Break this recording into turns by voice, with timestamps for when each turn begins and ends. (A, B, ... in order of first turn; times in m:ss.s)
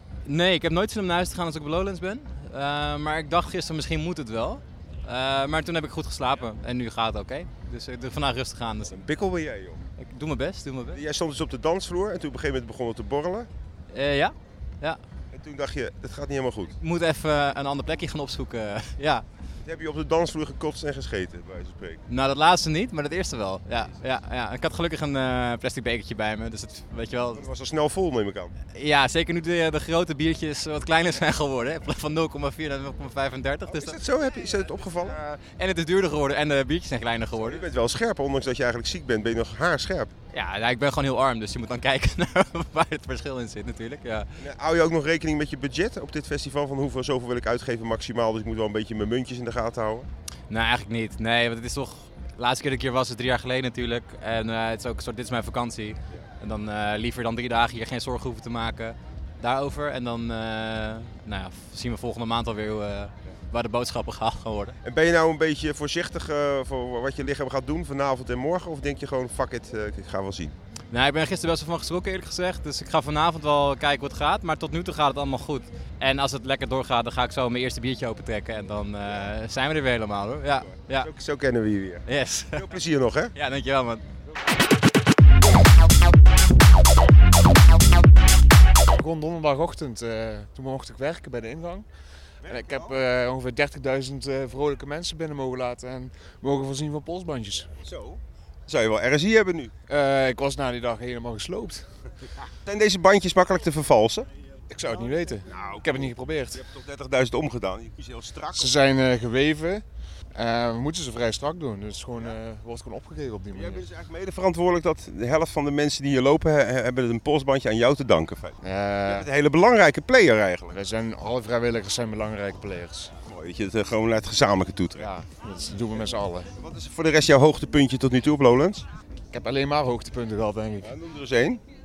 0:00.2-0:08.9 A
0:08.9-0:09.8 B
0:10.0-0:11.0 A
0:10.9-0:13.5 B
0:13.9-0:15.0 A
0:15.3-0:16.8 B
0:16.8-0:19.2 A
0:19.6-0:22.0 B
0:22.1-0:27.4 A
0:27.3-0:28.5 B
0:28.7-0:34.0 A
0:33.7-0:35.2 B
0:35.0-0:37.6 A
0:37.4-0:40.1 B
0:40.3-0:44.3 A
0:44.4-0:50.1 B
0:50.5-1:04.8 A
1:04.8-1:10.5 B
1:10.9-1:21.1 A
1:21.0-1:23.3 B
1:22.0-1:22.6 A
1:23.3-1:24.0 A
1:28.9-1:31.8 C
1:32.4-1:32.9 B
1:32.4-1:37.7 C
1:37.8-1:39.7 B
1:39.9-1:41.8 C
1:42.6-1:44.3 B
1:44.7-1:46.6 C
1:45.5-1:48.7 B
1:48.5-1:49.8 C
1:50.3-1:53.8 C
1:53.5-2:00.7 B
1:58.6-1:59.3 C
2:00.7-2:03.1 C
2:03.2-2:05.1 B
2:05.0-2:06.5 C
2:06.6-2:08.8 B
2:09.3-2:10.9 C
2:10.8-2:11.6 B